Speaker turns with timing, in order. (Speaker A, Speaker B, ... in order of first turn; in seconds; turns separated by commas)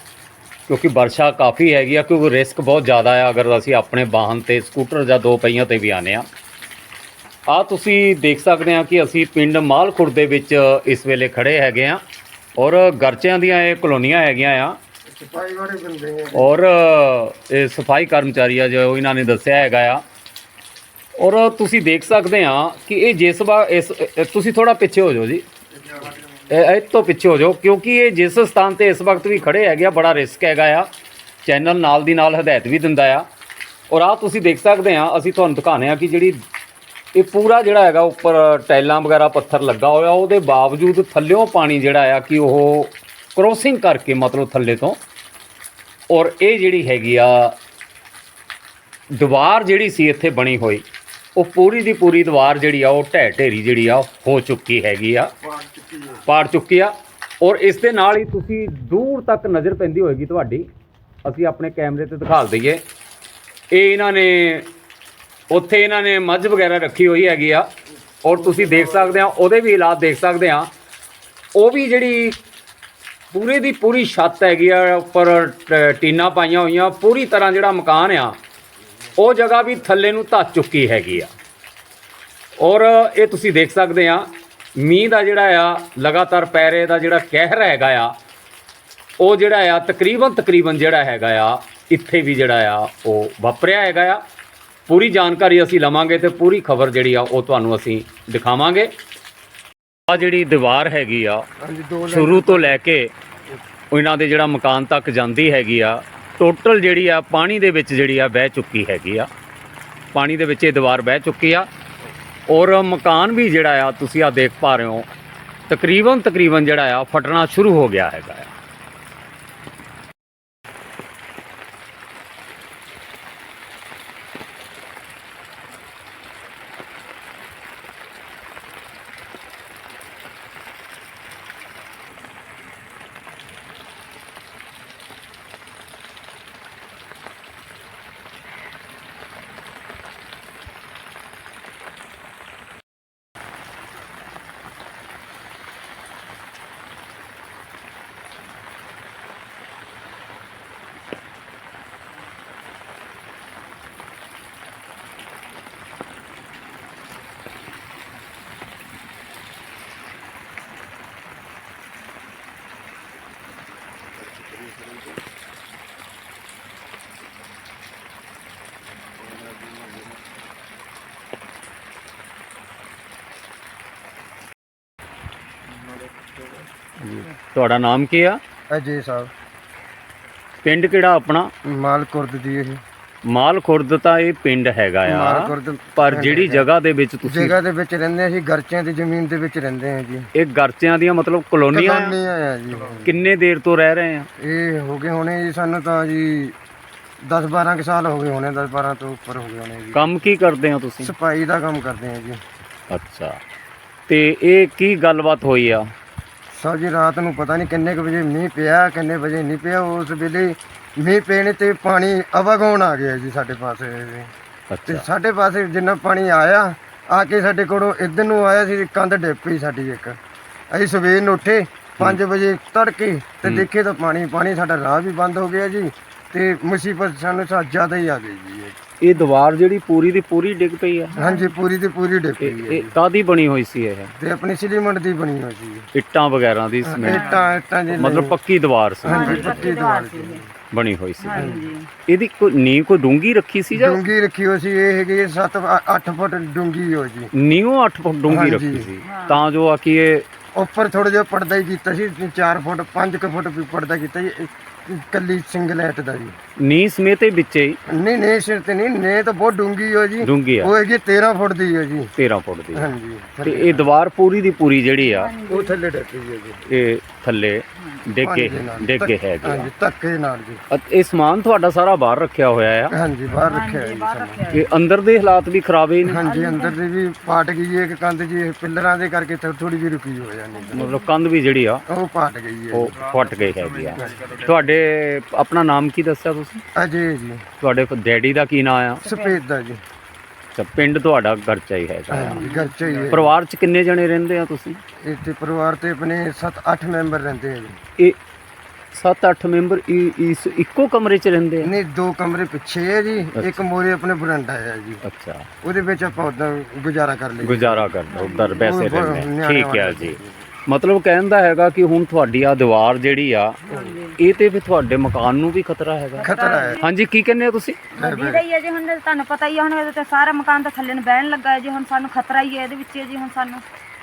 Speaker A: 0.7-6.2, Speaker A: 7.5-12.0, Speaker A: 12.6-14.8, Speaker B: 15.1-16.5, Speaker A: 16.3-20.0, Speaker A: 21.2-25.4, Speaker A: 26.5-30.9, Speaker A: 31.4-33.2, Speaker A: 33.9-36.3, Speaker A: 37.1-45.0, Speaker A: 46.1-47.6, Speaker A: 49.1-50.8, Speaker A: 51.4-55.3, Speaker B: 55.6-56.0, Speaker A: 56.2-60.7, Speaker A: 61.2-62.8, Speaker A: 63.7-64.7, Speaker A: 65.5-67.7, Speaker A: 68.2-70.7, Speaker A: 71.6-72.4, Speaker A: 73.3-78.4, Speaker A: 79.2-81.3, Speaker A: 82.6-88.1, Speaker A: 89.2-94.2, Speaker A: 94.9-98.9, Speaker A: 100.1-101.4, Speaker B: 101.6-102.8, Speaker A: 102.1-103.1, Speaker A: 103.9-109.3, Speaker A: 110.1-111.7, Speaker A: 112.5-115.1, Speaker A: 115.7-118.5, Speaker A: 177.0-178.4, Speaker B: 178.7-179.3, Speaker A: 180.6-181.5, Speaker B: 181.7-182.8, Speaker A: 183.3-187.6, Speaker B: 185.1-186.7, Speaker B: 187.2-190.3, Speaker A: 190.4-192.2, Speaker B: 191.7-193.1, Speaker A: 193.1-194.3, Speaker B: 194.4-196.6, Speaker B: 197.2-200.1, Speaker A: 199.9-201.1, Speaker B: 201.0-202.4, Speaker A: 202.9-203.4, Speaker A: 204.1-205.8, Speaker B: 206.5-214.3, Speaker A: 214.7-215.1, Speaker B: 214.9-220.2, Speaker B: 220.7-228.8, Speaker A: 229.0-231.1, Speaker C: 231.2-231.5, Speaker B: 231.2-232.9, Speaker A: 232.4-234.1, Speaker B: 234.2-235.9, Speaker A: 235.9-239.7, Speaker B: 236.8-238.4, Speaker C: 237.1-237.4, Speaker B: 239.0-240.5, Speaker C: 239.1-240.4, Speaker A: 240.7-241.5, Speaker C: 241.2-241.9, Speaker B: 241.3-241.7, Speaker A: 242.1-244.0, Speaker B: 243.8-247.3, Speaker A: 247.3-250.2, Speaker B: 248.3-248.9, Speaker C: 249.0-249.4, Speaker B: 250.6-256.4, Speaker A: 256.6-257.8, Speaker B: 257.9-262.1, Speaker A: 260.2-260.7, Speaker A: 262.2-262.9, Speaker B: 262.7-263.9, Speaker A: 263.4-265.3, Speaker C: 265.0-265.8, Speaker B: 265.4-266.6, Speaker A: 266.7-269.7, Speaker B: 268.2-270.6, Speaker A: 270.7-272.9, Speaker B: 272.9-274.4, Speaker C: 273.5-274.7, Speaker A: 274.5-276.2, Speaker B: 276.1-280.9, Speaker C: 276.1-276.8, Speaker C: 280.6-281.1, Speaker A: 280.7-281.8, Speaker B: 281.9-283.0, Speaker A: 282.7-286.6, Speaker B: 284.0-284.3, Speaker B: 286.8-287.4, Speaker A: 287.6-289.1, Speaker C: 289.0-289.4, Speaker B: 289.1-289.8, Speaker A: 290.6-292.6, Speaker B: 292.1-293.3, Speaker C: 292.2-292.7, Speaker A: 293.1-294.8, Speaker B: 295.0-297.8, Speaker A: 298.9-301.7, Speaker B: 301.6-305.0, Speaker A: 303.4-303.6, Speaker A: 305.0-305.5, Speaker B: 305.6-307.9, Speaker A: 307.4-313.6, Speaker C: 308.1-308.6, Speaker B: 308.6-310.4, Speaker C: 313.7-314.2, Speaker B: 313.7-313.9, Speaker A: 314.2-317.8, Speaker C: 316.2-316.8, Speaker B: 316.2-316.8, Speaker C: 317.9-323.6, Speaker B: 318.0-318.4